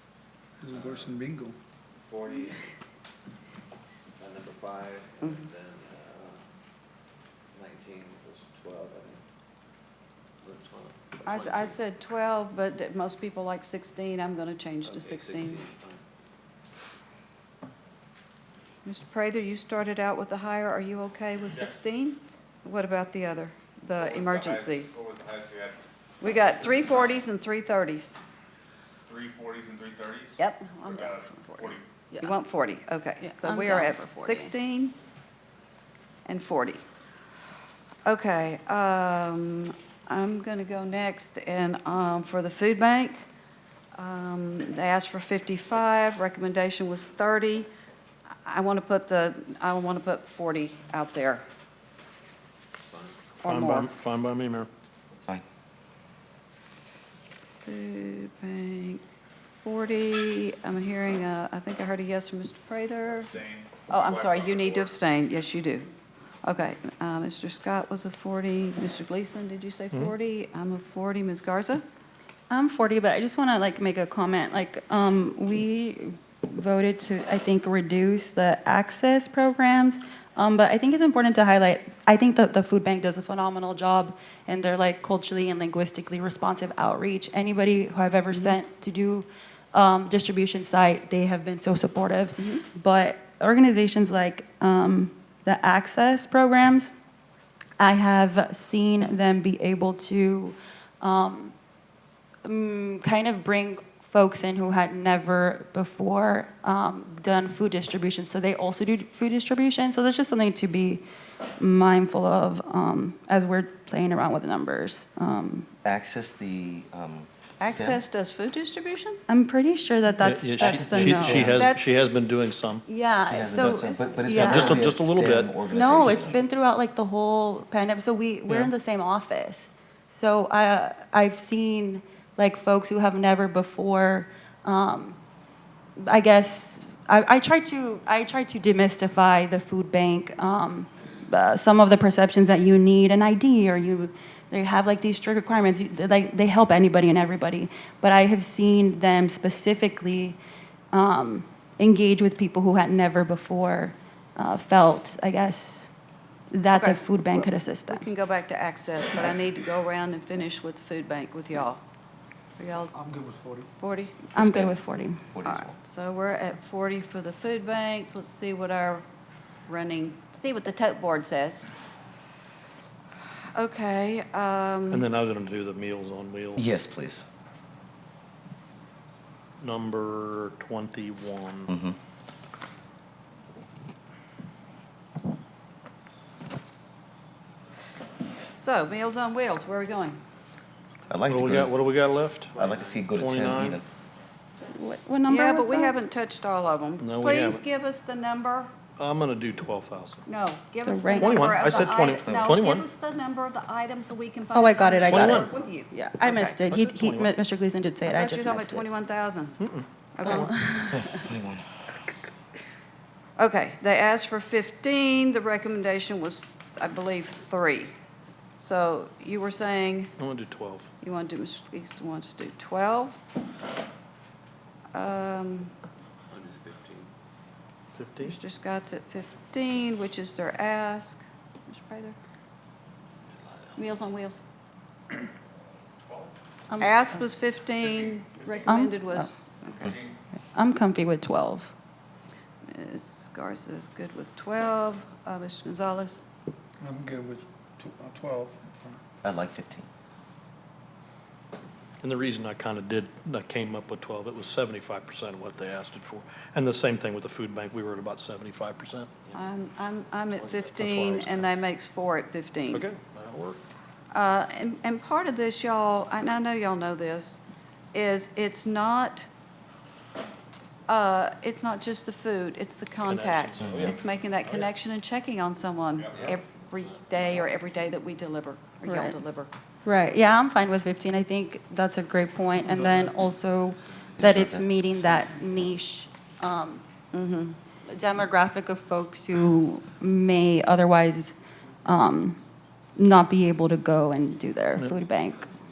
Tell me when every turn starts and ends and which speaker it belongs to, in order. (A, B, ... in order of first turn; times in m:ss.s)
0:00.6-0:01.6 A
0:00.8-0:01.1 B
0:02.1-0:02.6 B
0:04.2-0:06.4 B
0:07.6-0:09.2 B
0:10.4-0:11.8 B
0:11.2-0:15.6 C
0:14.8-0:15.9 B
0:15.4-0:16.0 D
0:18.8-0:24.9 C
0:24.0-0:25.8 D
0:26.2-0:28.2 C
0:29.1-0:31.8 D
0:30.4-0:35.0 C
0:33.2-0:34.5 E
0:36.3-0:36.8 C
0:38.0-0:43.2 C
0:44.0-0:47.7 C
0:48.4-0:51.4 C
0:53.4-0:53.9 C
0:53.5-0:54.7 F
0:55.1-0:55.4 G
0:57.6-0:59.0 C
0:59.5-1:03.3 C
1:03.2-1:04.9 D
1:03.9-1:05.9 C
1:06.4-1:11.8 C
1:12.5-1:36.9 E
1:28.3-1:28.6 C
1:37.8-1:41.5 E
1:42.4-1:51.0 E
1:51.6-1:55.7 E
1:55.8-1:58.0 G
1:57.6-1:59.2 C
1:59.3-2:01.5 E
2:00.2-2:02.8 F
2:00.6-2:01.6 G
2:01.4-2:02.3 C
2:02.9-2:04.8 E
2:03.2-2:06.4 G
2:03.6-2:04.2 C
2:04.3-2:05.5 F
2:05.7-2:15.2 E
2:16.0-2:30.4 E
2:30.9-2:35.9 E
2:36.5-2:38.0 E
2:36.7-2:41.8 C
2:42.6-2:42.9 C
2:42.9-2:43.7 A
2:43.8-2:44.3 C
2:44.3-2:45.2 E
2:44.4-2:44.8 G
2:45.3-2:45.8 G
2:45.4-2:49.0 C
2:49.7-2:51.7 C
2:53.6-2:55.1 C
2:54.9-2:56.6 F
2:56.6-2:57.3 G
2:59.6-3:01.7 F
3:01.7-3:02.0 G
3:08.6-3:10.2 C
3:11.1-3:11.7 G
3:11.3-3:13.8 F
3:12.5-3:13.8 G
3:14.7-3:16.0 E
3:15.3-3:18.7 C
3:17.0-3:17.6 F
3:19.0-3:20.2 F
3:20.3-3:26.6 C
3:20.8-3:21.8 E
3:21.2-3:22.8 F
3:22.2-3:22.5 G
3:24.5-3:28.8 E
3:25.0-3:25.5 F
3:26.6-3:27.3 F
3:28.1-3:29.6 C
3:29.6-3:30.5 F
3:30.2-3:30.5 C
3:30.2-3:31.3 E
3:30.9-3:31.7 G
3:33.4-3:37.9 C
3:38.6-3:40.1 C
3:40.2-3:40.9 F
3:41.0-3:43.2 C
3:44.9-3:45.7 C
3:46.3-3:47.1 B
3:48.0-3:48.4 F
3:48.2-3:52.2 C
3:53.8-3:54.4 C
3:56.0-3:56.3 D
3:56.7-3:57.2 E
3:56.8-4:00.0 C
3:58.6-3:59.3 E
3:59.9-4:00.1 D
4:00.5-4:01.7 E
4:02.7-4:06.2 C
4:06.8-4:09.0 A
4:09.2-4:09.9 G
4:12.0-4:19.1 F
4:19.3-4:22.9 C
4:22.7-4:23.6 F
4:24.1-4:27.4 C
4:27.9-4:29.3 C
4:30.9-4:39.5 C
4:33.0-4:34.0 F
4:33.6-4:33.9 G
4:36.0-4:36.3 D
4:38.9-4:39.2 E
4:39.8-4:46.8 E
4:42.8-4:43.0 F
4:44.2-4:45.6 G
4:47.1-4:47.6 C
4:47.9-4:52.4 E
4:53.0-4:55.5 E